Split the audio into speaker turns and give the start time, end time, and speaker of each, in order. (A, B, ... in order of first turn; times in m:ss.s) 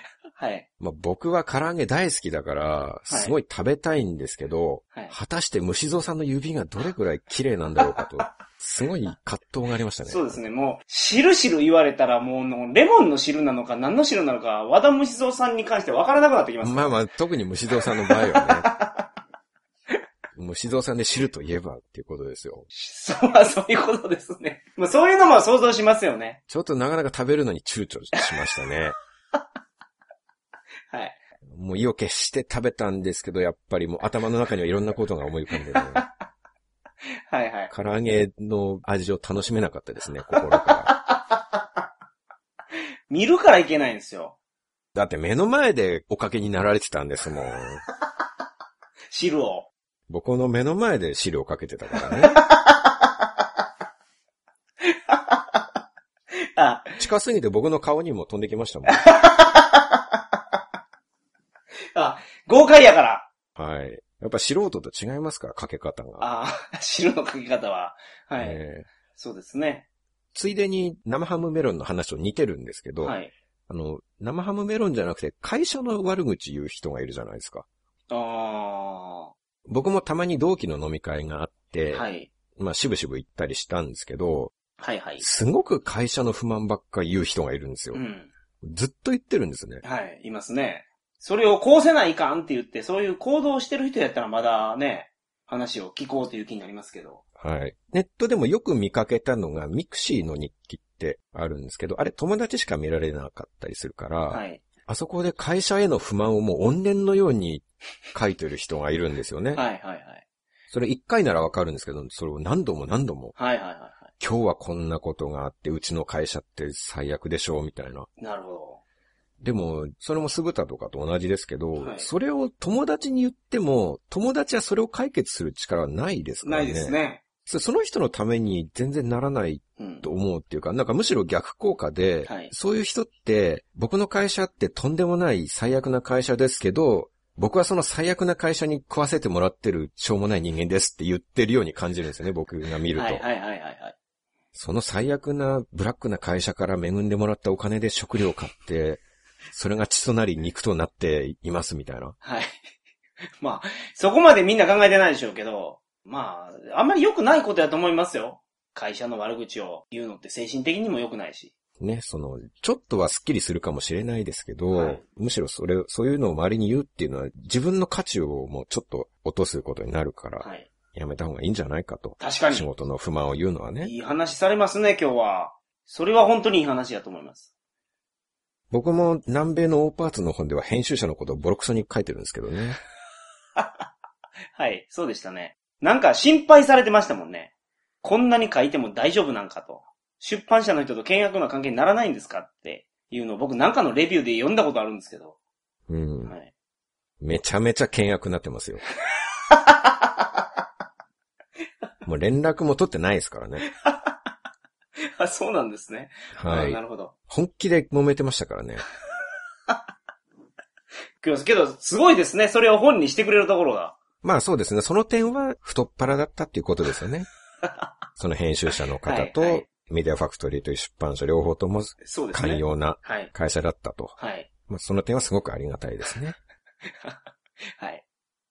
0:00.4-0:00.6 A
0:00.8-0:10.4 B
0:03.1-0:03.3 A
0:10.0-0:17.0 A
0:16.6-0:18.7 B
0:18.0-0:19.0 A
0:20.4-0:22.7 B
0:22.7-0:26.4 A
0:26.5-0:28.9 B
0:30.9-0:31.2 A
0:31.5-0:36.0 B
0:35.7-0:36.1 A
0:37.3-0:37.7 A
0:37.7-0:40.9 B
0:40.3-0:41.4 A
0:43.1-0:44.4 A
0:44.9-0:47.8 B
0:49.1-0:49.7 A
0:50.1-0:52.4 B
0:52.2-0:53.1 A
0:54.8-0:55.6 A
0:56.6-0:57.0 A
0:57.0-0:59.0 B
0:58.9-1:00.2 A
1:01.9-1:03.3 A
1:03.6-1:06.3 B
1:06.2-1:08.6 A
1:08.4-1:08.9 B
1:09.1-1:09.8 A
1:10.3-1:13.2 B
1:13.0-1:13.3 A
1:13.7-1:17.6 B
1:18.1-1:19.3 A
1:19.6-1:24.5 B
1:21.9-1:22.3 A
1:24.8-1:25.2 A
1:25.2-1:28.0 B
1:27.9-1:28.3 A
1:28.6-1:29.8 B
1:29.8-1:37.2 A
1:37.4-1:49.6 B
1:44.3-1:44.6 A
1:49.5-1:50.2 A
1:50.7-1:53.3 B
1:53.4-1:54.1 A
1:54.2-1:58.1 B
1:58.2-1:58.8 A
1:59.4-2:23.2 B
2:01.8-2:02.1 A
2:06.4-2:07.2 A
2:09.8-2:10.1 A
2:12.2-2:12.5 A
2:22.9-2:24.0 A
2:24.5-2:32.2 B
2:32.2-2:32.5 A
2:33.4-2:41.5 A
2:41.8-2:53.9 B
2:44.7-2:45.0 A
2:50.4-2:50.7 A
2:52.2-2:52.7 A
2:53.8-2:57.5 A
2:58.7-3:02.8 B
3:04.5-3:07.5 A
3:08.0-3:15.4 A
3:15.9-3:16.3 B
3:16.2-3:16.5 A
3:17.2-3:18.8 B
3:19.5-3:20.2 A
3:22.0-3:23.6 B
3:23.6-3:24.1 A
3:25.2-3:27.1 A
3:26.3-3:28.8 B
3:31.2-3:34.0 A
3:34.2-3:37.3 B
3:38.2-3:44.1 B
3:39.0-3:39.6 A
3:42.0-3:43.3 A
3:44.2-3:44.5 A
3:44.7-3:46.4 B
3:47.8-3:48.0 A